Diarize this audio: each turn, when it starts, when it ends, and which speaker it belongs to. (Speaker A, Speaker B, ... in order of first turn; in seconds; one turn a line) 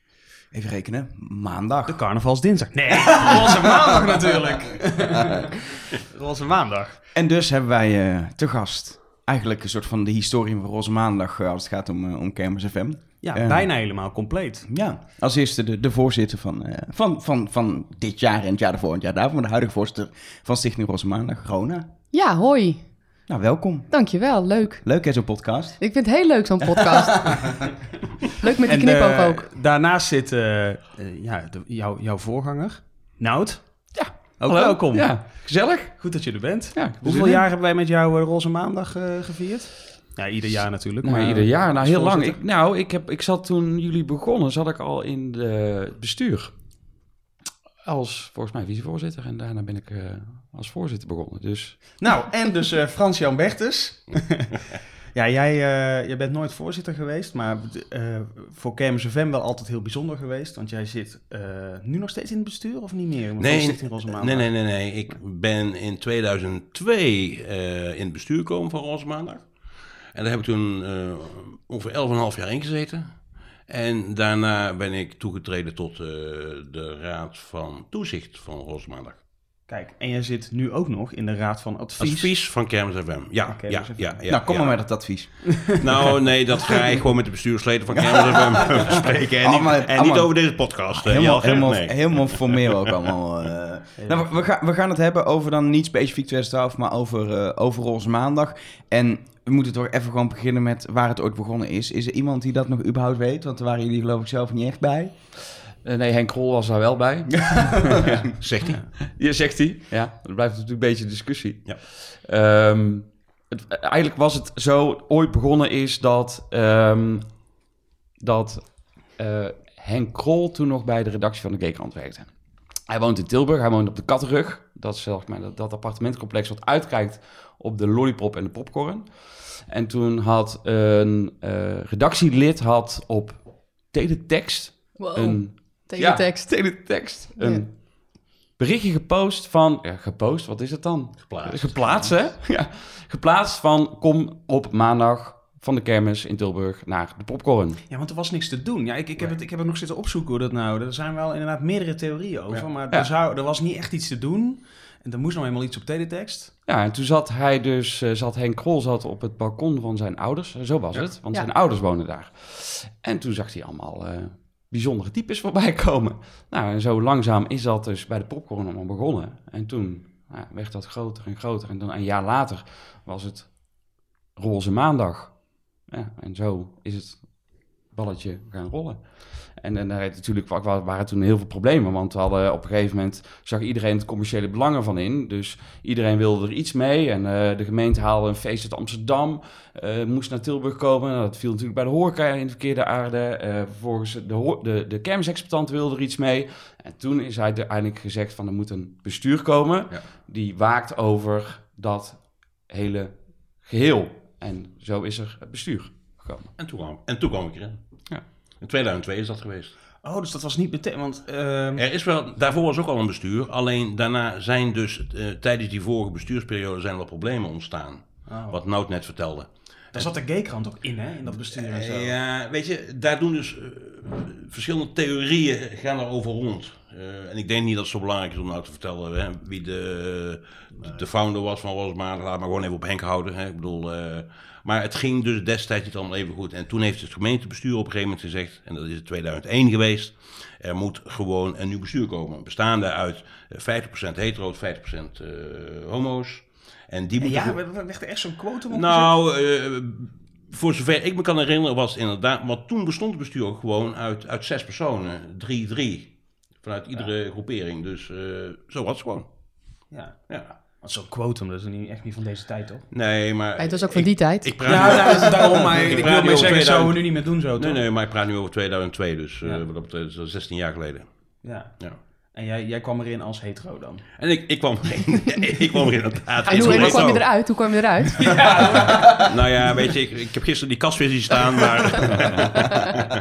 Speaker A: 0.5-2.6
Speaker B: 1.9-5.3
Speaker B: 6.1-7.0
Speaker A: 7.1-21.9
Speaker B: 13.2-14.9
Speaker C: 22.1-23.2
Speaker A: 23.3-25.9
Speaker C: 23.9-27.6
Speaker C: 28.4-29.5
Speaker B: 28.6-42.4
Speaker D: 33.9-37.5
Speaker D: 41.0-47.0
Speaker D: 47.8-52.1
Speaker B: 52.0-54.5
Speaker B: 55.1-65.2
Speaker E: 63.4-79.2
Speaker B: 79.7-82.5
Speaker E: 82.0-92.6
Speaker B: 83.5-84.2
Speaker A: 84.3-85.8
Speaker A: 89.2-105.2
Speaker B: 94.0-94.3
Speaker D: 105.8-117.6
Speaker E: 108.4-108.8
Speaker D: 118.2-147.8
Speaker C: 135.0-137.6
Speaker E: 141.3-142.2
Speaker B: 147.9-156.5
Speaker D: 152.8-153.1
Speaker D: 156.7-206.5
Speaker E: 206.6-209.7
Speaker B: 210.0-211.8
Speaker E: 211.8-220.1
Speaker B: 218.2-218.6
Speaker B: 219.9-222.2
Speaker E: 221.3-247.6
Speaker B: 247.2-249.1
Speaker E: 248.7-260.6
Speaker B: 259.9-262.9
Speaker E: 262.9-272.0
Speaker C: 263.6-265.1
Speaker B: 264.6-267.9
Speaker B: 271.4-274.1
Speaker E: 274.2-277.6
Speaker C: 276.5-278.3
Speaker B: 276.5-276.9
Speaker E: 278.2-283.0
Speaker B: 278.2-279.0